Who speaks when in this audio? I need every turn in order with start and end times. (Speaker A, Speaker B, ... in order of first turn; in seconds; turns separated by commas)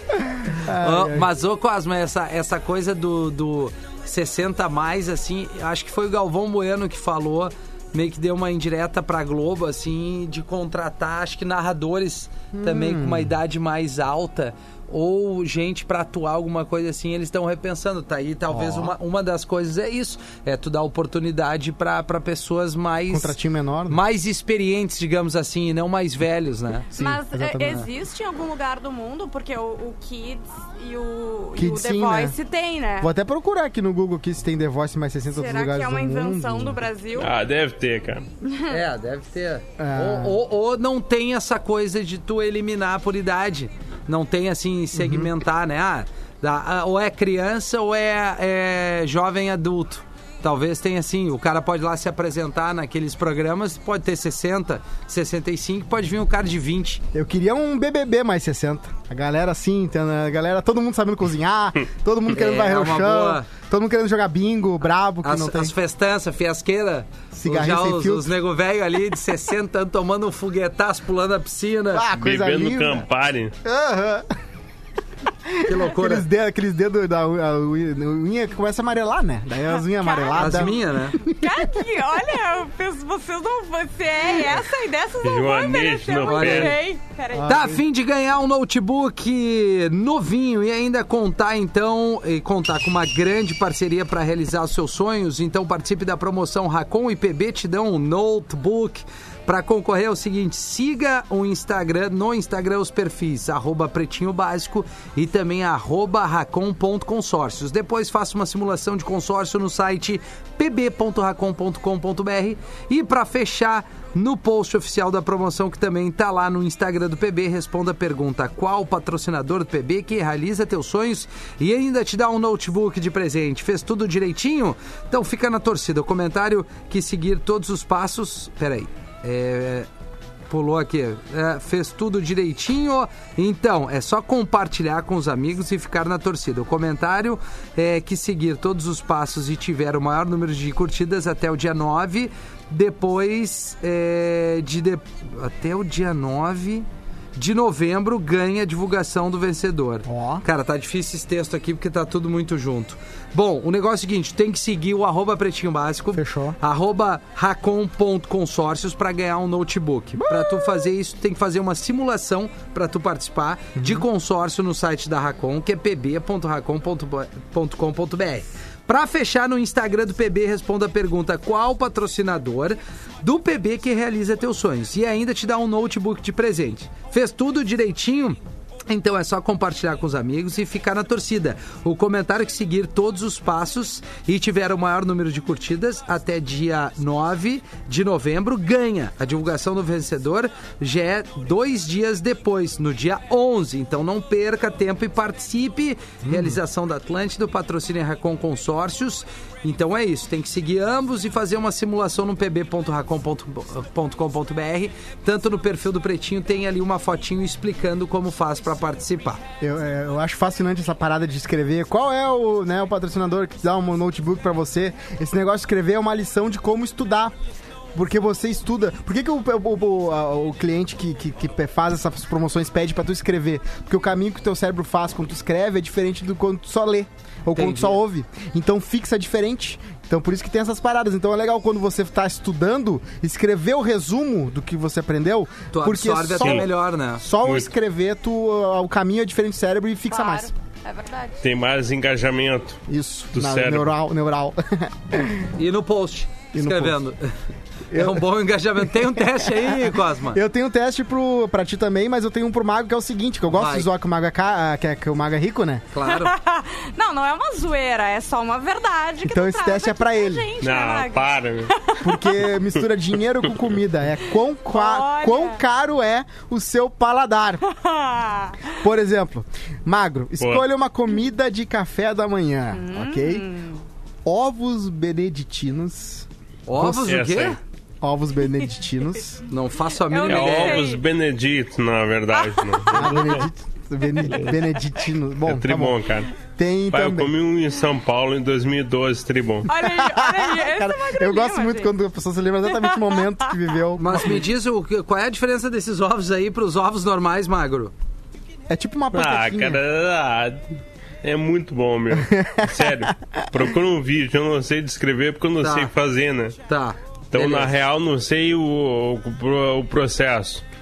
Speaker A: 0.2-1.3, Speaker B: 0.7-23.4, Speaker A: 12.5-13.3, Speaker A: 18.5-18.9, Speaker A: 23.1-24.0, Speaker B: 23.9-26.9, Speaker C: 26.9-33.1, Speaker A: 26.9-27.9, Speaker A: 31.6-32.4, Speaker A: 33.0-36.9, Speaker C: 35.3-37.3, Speaker D: 37.1-38.2, Speaker B: 38.7-57.0, Speaker A: 39.8-40.4, Speaker A: 44.9-45.3, Speaker A: 57.1-65.7, Speaker B: 62.3-63.5, Speaker B: 65.2-72.1, Speaker A: 67.3-68.3, Speaker A: 71.9-73.1, Speaker D: 72.2-73.5, Speaker A: 73.6-74.3, Speaker A: 75.5-81.8, Speaker B: 75.6-76.3, Speaker C: 79.9-87.6, Speaker B: 80.3-81.2, Speaker D: 85.2-86.8, Speaker B: 86.2-86.8, Speaker A: 87.3-87.8, Speaker B: 87.5-129.9, Speaker B: 130.5-209.4, Speaker A: 150.1-150.4, Speaker A: 156.1-156.6, Speaker A: 160.2-160.9, Speaker A: 163.8-164.1, Speaker A: 196.3-196.6, Speaker A: 209.6-217.3, Speaker A: 217.9-240.5, Speaker B: 227.5-228.0, Speaker B: 235.7-237.2, Speaker D: 236.4-236.7, Speaker D: 237.4-237.7, Speaker C: 240.1-241.4, Speaker D: 241.4-242.8, Speaker A: 242.9-245.5, Speaker D: 243.3-243.9, Speaker B: 245.6-247.3, Speaker A: 246.5-247.0, Speaker A: 247.9-255.9, Speaker B: 247.9-250.4, Speaker B: 253.5-253.9, Speaker B: 255.9-256.4, Speaker C: 256.0-262.4, Speaker A: 259.2-260.5, Speaker D: 260.6-261.8, Speaker A: 262.0-267.6, Speaker C: 264.7-265.6, Speaker C: 267.7-268.7, Speaker A: 268.8-273.5, Speaker D: 270.4-270.6, Speaker C: 272.7-273.8, Speaker A: 274.2-276.3, Speaker B: 276.7-277.6, Speaker A: 276.8-277.1, Speaker D: 276.8-277.6, Speaker A: 278.0-279.4, Speaker B: 279.5-280.9, Speaker C: 280.1-281.0, Speaker D: 280.3-283.5, Speaker C: 282.4-283.1, Speaker A: 282.9-286.0, Speaker D: 284.3-284.6, Speaker D: 285.4-286.3, Speaker A: 286.6-287.3, Speaker D: 286.9-289.7, Speaker C: 289.7-291.9, Speaker A: 289.8-294.4, Speaker C: 292.7-293.5, Speaker B: 294.0-297.9, Speaker A: 298.7-299.8, Speaker D: 299.1-300.7, Speaker D: 301.2-306.6, Speaker A: 302.2-303.5, Speaker B: 305.6-305.9, Speaker B: 306.7-307.7, Speaker D: 307.3-310.6